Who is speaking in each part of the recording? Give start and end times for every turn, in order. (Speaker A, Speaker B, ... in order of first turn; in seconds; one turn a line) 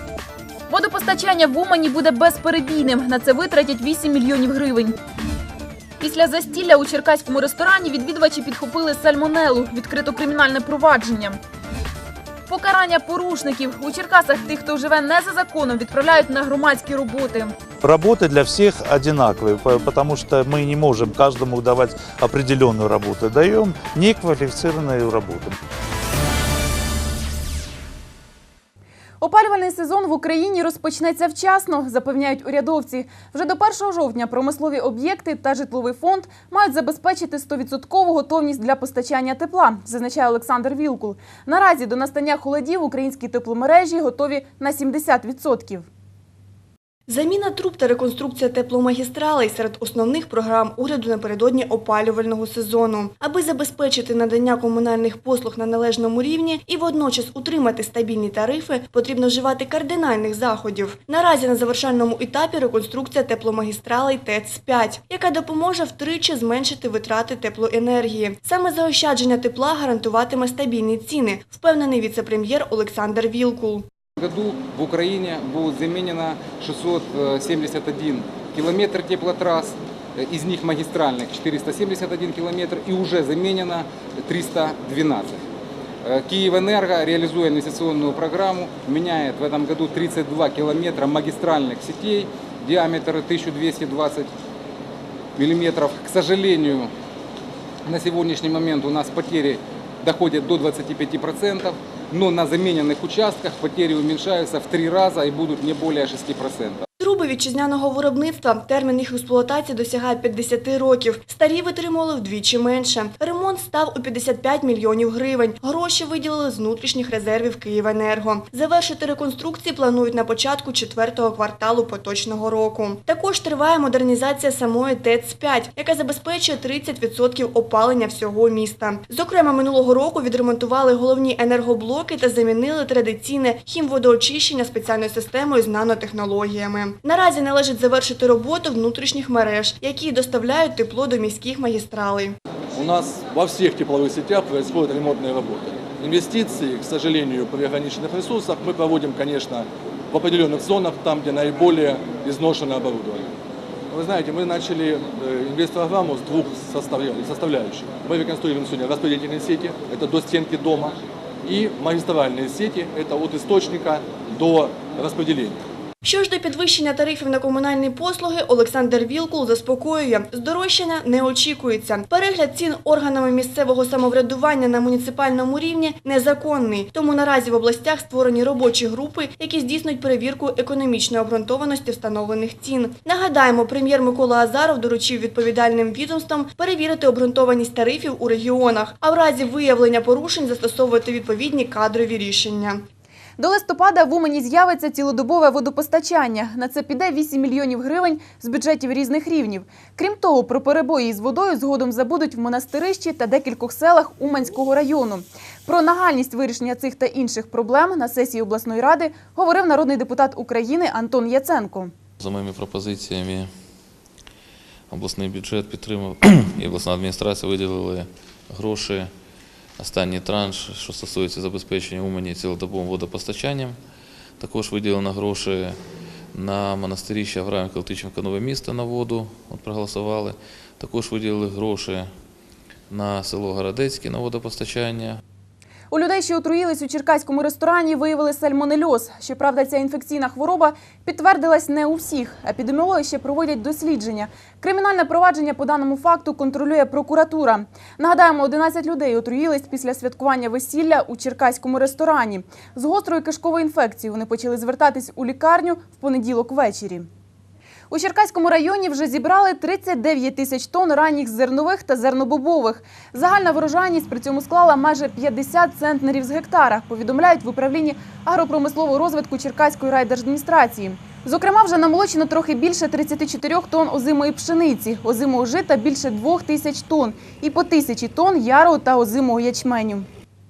Speaker A: 0.7-5.0
Speaker A: 6.0-11.4
Speaker A: 12.5-17.5
Speaker B: 17.8-25.5
Speaker A: 29.2-45.9
Speaker C: 47.1-73.8
Speaker D: 74.2-85.4
Speaker D: 86.0-94.3
Speaker D: 95.3-96.9
Speaker D: 97.8-106.8
Speaker C: 107.0-142.3
Speaker E: 142.7-153.2
Speaker E: 153.9-165.6
Speaker C: 166.0-192.8
Speaker A: 193.4-211.9
Speaker F: 212.2-213.5
Speaker F: 214.9-219.1
Speaker F: 219.8-223.8
Speaker F: 224.4-232.1
Speaker F: 232.9-235.2
Speaker A: 235.9-257.1
Speaker A: 257.9-280.1